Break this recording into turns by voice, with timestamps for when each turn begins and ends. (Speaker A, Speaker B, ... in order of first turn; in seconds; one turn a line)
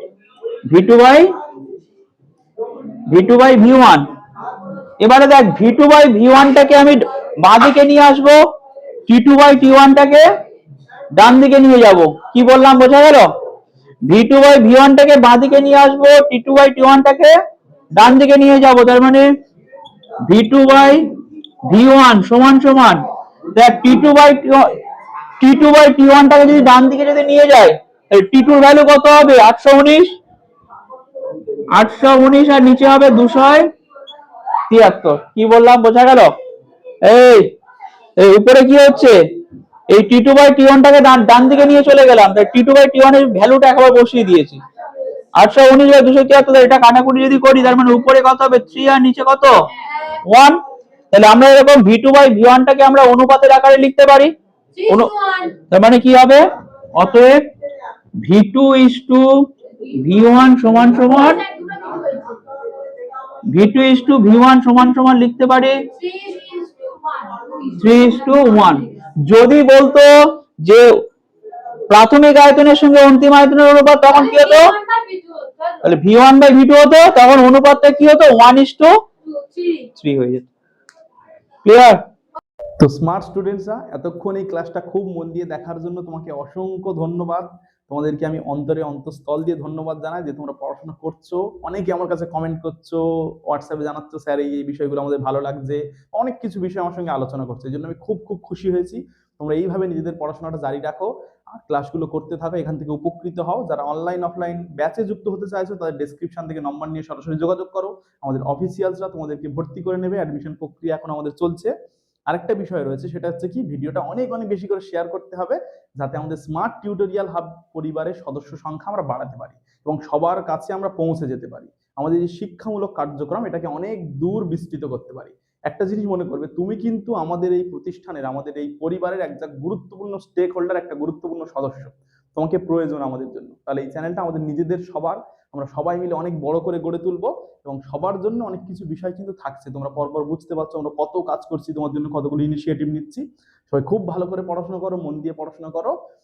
Speaker A: 0.7-1.3
Speaker A: 3.1-4.0
Speaker A: 5.0-8.4
Speaker A: 9.1-10.2
Speaker A: 11.1-13.3
Speaker A: 14.0-17.3
Speaker A: 17.9-19.3
Speaker A: 20.2-21.0
Speaker A: 21.7-23.0
Speaker A: 23.5-24.7
Speaker A: 25.4-30.1
Speaker A: 31.7-33.7
Speaker A: 34.7-36.3
Speaker A: 37.0-37.5
Speaker A: 38.2-39.2
Speaker A: 39.9-44.6
Speaker A: 45.4-49.5
Speaker B: 49.8-50.2
Speaker A: 50.2-50.6
Speaker A: 51.1-54.3
Speaker B: 54.8-55.5
Speaker A: 55.7-57.4
Speaker A: 58.2-59.2
Speaker A: 59.9-61.4
Speaker B: 61.1-62.4
Speaker A: 63.5-65.8
Speaker B: 65.9-68.9
Speaker A: 67.8-71.0
Speaker A: 71.9-74.7
Speaker B: 74.1-75.8
Speaker A: 75.8-78.9
Speaker B: 79.2-79.9
Speaker A: 79.9-80.5
Speaker A: 81.6-82.0
Speaker C: 82.8-111.7
Speaker C: 112.3-145.9